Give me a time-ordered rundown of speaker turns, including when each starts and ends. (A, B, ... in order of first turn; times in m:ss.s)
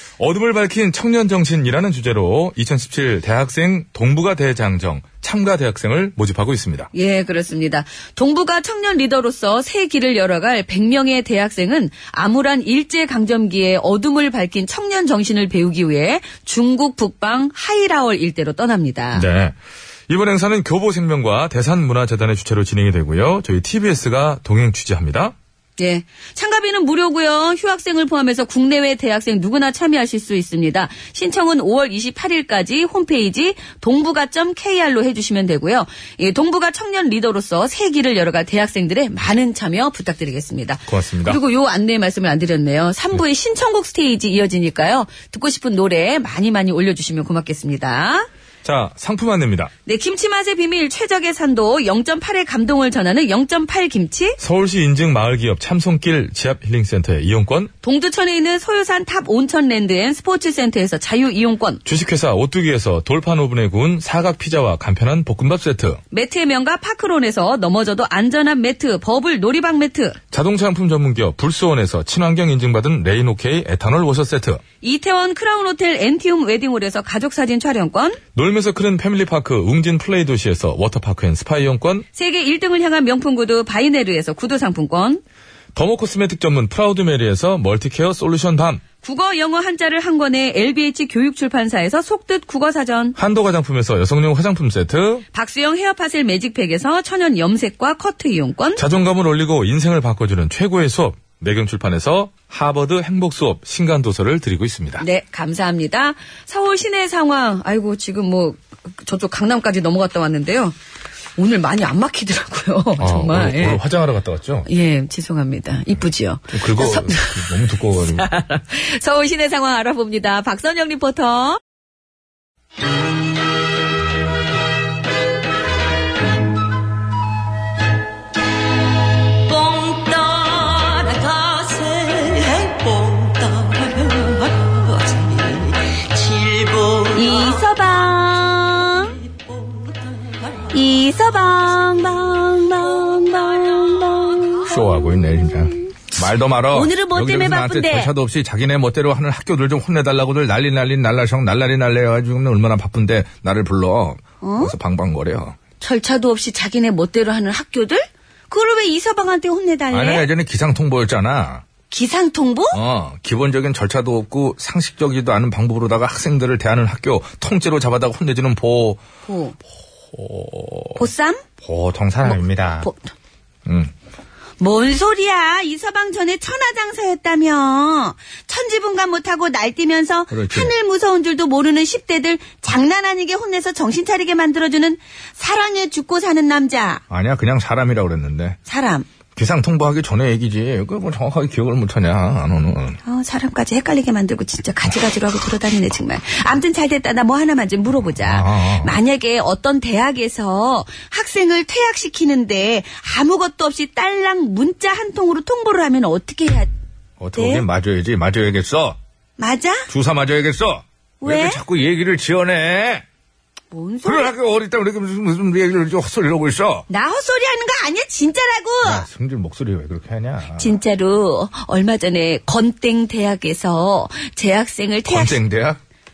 0:00.2-0:06.9 A
0:06.9-0:19.3 B
0:19.1-0:19.6 A
0:20.1-0:25.3 A
0:25.8-0:48.3 B
0:40.9-0:41.4 A
0:48.6-0:49.7 A
0:49.8-0:54.4 B
0:54.4-0:57.7 A
0:57.8-1:01.8 B
1:01.8-1:06.0 A
1:06.1-1:10.2 B
1:10.3-1:14.6 A
1:14.8-1:18.2 B
1:18.3-1:22.0 A
1:22.1-1:25.2 B
1:25.7-1:28.8 A
1:29.0-1:33.2 B
1:33.2-1:35.2 A
1:35.3-1:38.8 B
1:38.8-1:45.0 A
1:45.0-1:50.8 B
1:51.4-1:53.8 B
1:53.0-1:54.7 A
1:54.7-2:01.6 B
1:56.5-1:58.3 A
2:09.5-2:17.1 C
2:17.1-2:19.2 B
2:20.7-2:25.0 B
2:24.6-2:35.6 A
2:26.7-2:28.1 B
2:34.4-2:34.7 B
2:35.8-2:40.3 B
2:39.9-2:41.6 A
2:41.9-2:42.8 B
2:42.7-2:49.0 A
2:49.2-2:49.6 B
2:50.1-2:51.0 A
2:51.0-2:51.4 B
2:51.6-2:52.9 A
2:52.2-2:53.1 B
2:53.6-2:53.9 A
2:54.6-3:07.0 B
3:00.3-3:00.7 A
3:07.1-3:08.6 A
3:08.7-3:09.0 B
3:09.3-3:13.0 A
3:13.0-3:26.7 B
3:18.2-3:19.0 A
3:27.2-3:29.0 A
3:27.4-3:27.6 B
3:29.4-3:29.9 B
3:29.9-3:33.0 A
3:31.2-3:31.6 B
3:33.7-3:34.3 B
3:34.0-3:36.8 A
3:36.9-3:39.1 B
3:38.8-3:40.8 A
3:40.6-3:45.4 B
3:45.0-3:45.8 A